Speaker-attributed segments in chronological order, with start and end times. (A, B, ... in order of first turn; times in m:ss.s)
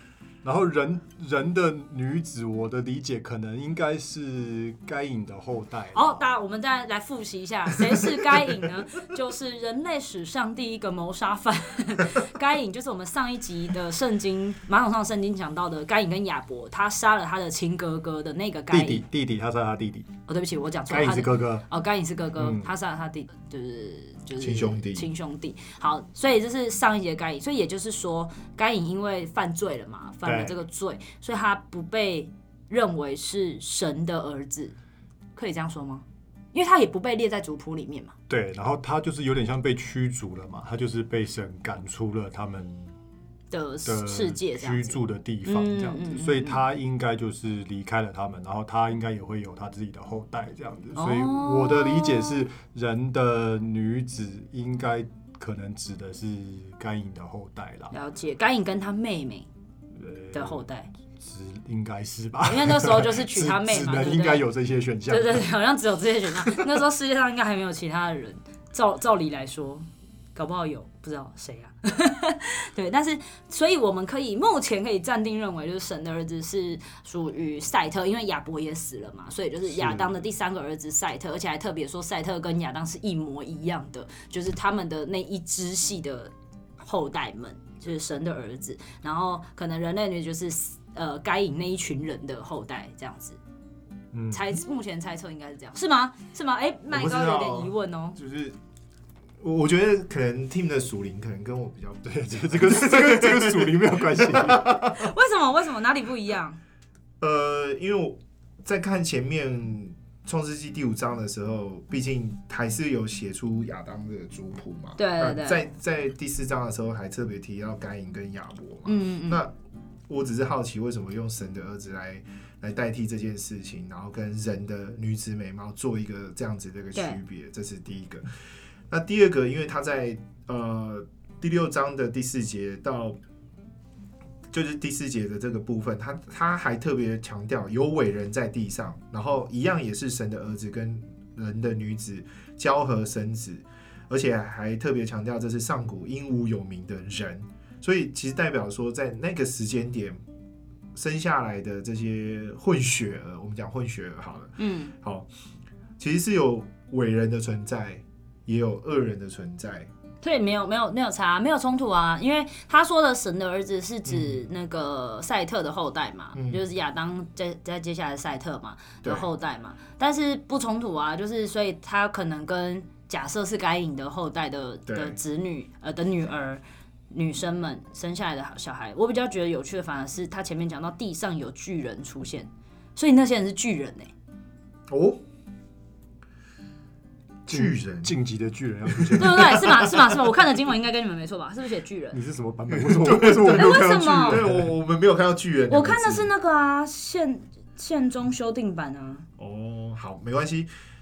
0:00.4-0:06.3 A
0:05.9-0:19.0 B
0:18.7-0:20.1 A
0:20.3-0:34.8 B
0:20.9-0:21.7 A
0:22.4-0:22.7 A
0:24.4-0:25.1 C
0:30.2-0:30.6 A
0:35.4-0:38.2 B
0:38.3-0:42.7 A
0:43.5-0:46.6 B
0:43.9-0:57.9 A
0:51.0-0:52.5 B
0:57.9-0:59.5 B
0:59.9-1:00.7 A
1:00.3-1:00.9 B
1:01.2-1:05.5 A
1:02.4-1:04.4 B
1:05.1-1:33.4 B
1:34.1-1:34.4 A
1:34.3-1:38.2 B
1:36.9-1:38.6 C
1:39.4-1:45.1 C
1:42.0-1:44.8 A
1:44.8-1:46.6 B
1:47.2-1:59.5 C
1:55.0-1:55.6 B
1:58.8-1:59.4 B
2:00.1-2:08.3 C
2:08.9-2:13.2 C
2:14.5-2:30.2 C
2:30.9-2:35.3 C
2:34.6-2:34.9 B
2:36.0-2:39.9 C
2:40.2-3:04.1 B
2:44.1-2:44.4 C
2:46.4-2:46.6 C
2:54.9-2:55.2 C
3:04.9-3:05.2 C
3:07.5-3:08.2 C
3:07.5-3:10.0 A
3:08.9-3:09.7 C
3:09.2-3:12.2 B
3:12.1-3:14.7 A
3:12.7-3:16.3 C
3:13.5-3:14.4 B
3:15.7-3:19.3 B
3:19.4-3:20.7 C